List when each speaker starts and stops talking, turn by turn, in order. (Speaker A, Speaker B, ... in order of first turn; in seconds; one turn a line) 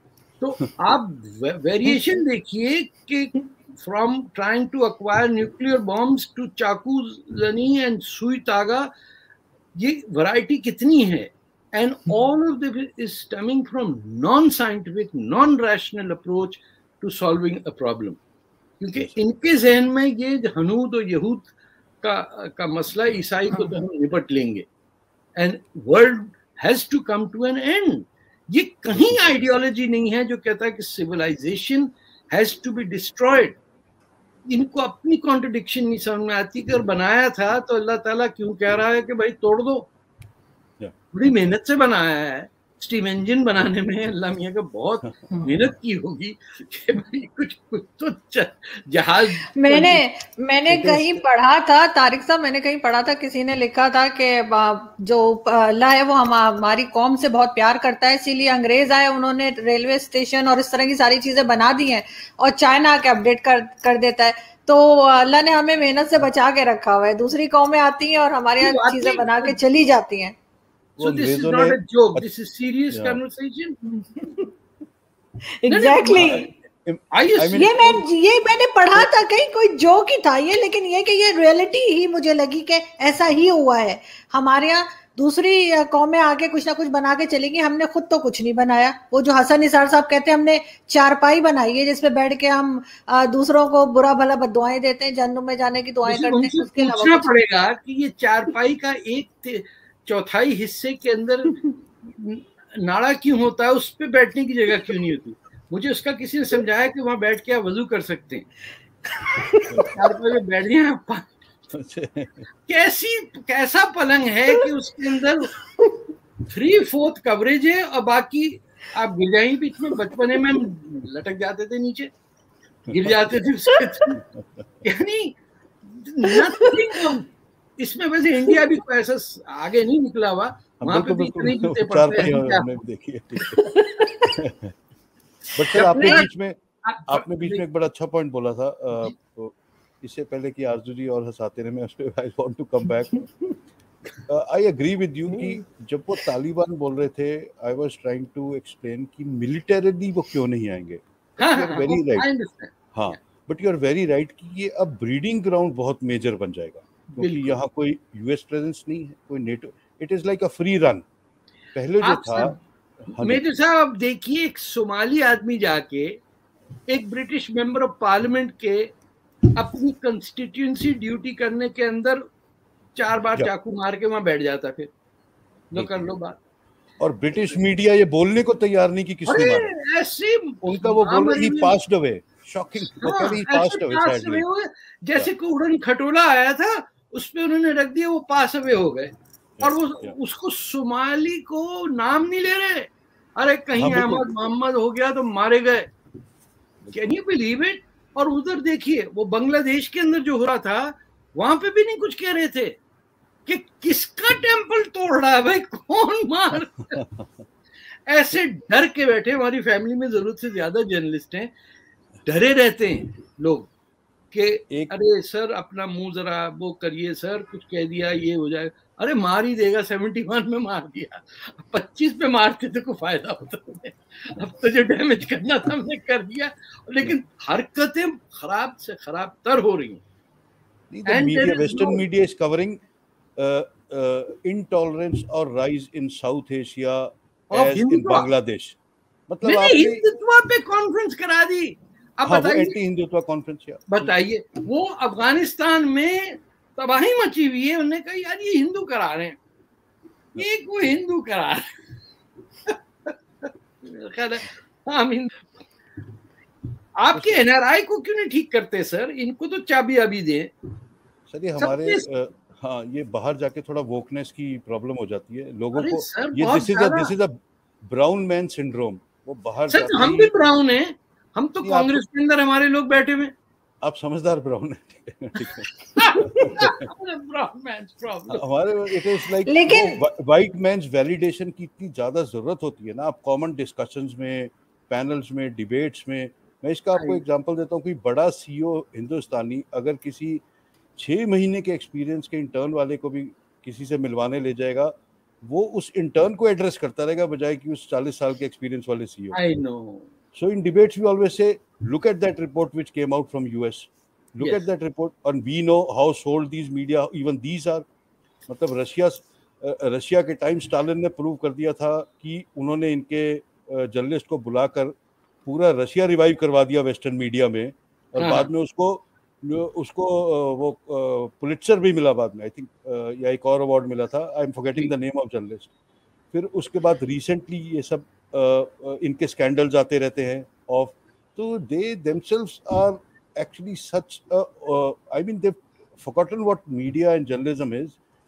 Speaker A: 0.4-8.9
Speaker A: 9.7-18.2
Speaker A: 18.8-21.5
Speaker A: 22.0-24.6
Speaker A: 25.4-33.6
Speaker B: 28.9-29.4
Speaker A: 34.5-39.9
Speaker A: 41.1-50.0
Speaker C: 49.5-70.3
Speaker A: 50.7-51.1
Speaker A: 68.6-69.6
Speaker B: 71.0-72.2
Speaker A: 71.0-73.8
Speaker B: 72.9-73.2
Speaker C: 73.9-74.5
Speaker C: 75.6-76.5
Speaker A: 75.7-76.5
Speaker B: 76.1-77.7
Speaker A: 77.1-78.0
Speaker C: 77.5-97.3
Speaker A: 96.0-108.5
Speaker C: 109.2-110.2
Speaker A: 109.9-111.3
Speaker B: 111.7-112.4
Speaker A: 112.7-115.5
Speaker A: 116.5-122.1
Speaker A: 122.9-124.2
Speaker B: 122.9-123.2
Speaker B: 124.1-124.4
Speaker A: 124.8-127.3
Speaker C: 126.2-127.0
Speaker A: 127.8-132.7
Speaker B: 130.8-133.6
Speaker C: 133.7-134.3
Speaker B: 134.3-134.7
Speaker B: 135.6-143.3
Speaker A: 135.7-136.3
Speaker A: 136.8-137.6
Speaker B: 144.3-152.3
Speaker A: 151.4-152.7
Speaker B: 152.9-161.0
Speaker A: 157.2-157.6
Speaker B: 161.7-162.6
Speaker A: 162.0-162.6
Speaker A: 163.1-166.2
Speaker B: 163.1-163.4
Speaker A: 166.9-168.9
Speaker A: 169.5-172.2
Speaker A: 172.9-174.9
Speaker A: 175.7-176.4
Speaker B: 175.7-176.1
Speaker B: 177.0-179.7
Speaker A: 179.3-181.7
Speaker B: 180.6-184.4
Speaker A: 183.0-195.9
Speaker B: 189.6-190.1
Speaker B: 193.8-194.3
Speaker A: 196.9-202.8
Speaker A: 203.4-207.0
Speaker B: 206.9-207.4
Speaker A: 208.1-211.5
Speaker A: 212.2-213.7
Speaker A: 214.3-230.0
Speaker B: 230.9-232.8
Speaker A: 231.1-232.0
Speaker B: 233.4-238.8
Speaker A: 237.5-238.3
Speaker B: 239.3-240.0
Speaker A: 239.4-242.8
Speaker B: 242.2-244.1
Speaker A: 243.9-249.4
Speaker A: 250.3-251.7
Speaker A: 252.7-255.6
Speaker A: 257.0-260.5
Speaker B: 261.3-270.3
Speaker A: 261.6-262.0
Speaker A: 265.7-267.1
Speaker A: 269.7-273.3
Speaker B: 271.6-272.0
Speaker B: 273.8-275.7
Speaker A: 275.9-278.4
Speaker B: 276.2-276.9
Speaker B: 278.3-290.4
Speaker C: 279.5-280.0
Speaker A: 286.9-287.2
Speaker B: 291.0-299.4
Speaker A: 299.3-300.1
Speaker B: 300.3-307.9
Speaker B: 308.5-314.9
Speaker B: 315.4-325.7
Speaker A: 318.2-318.5
Speaker B: 326.3-338.0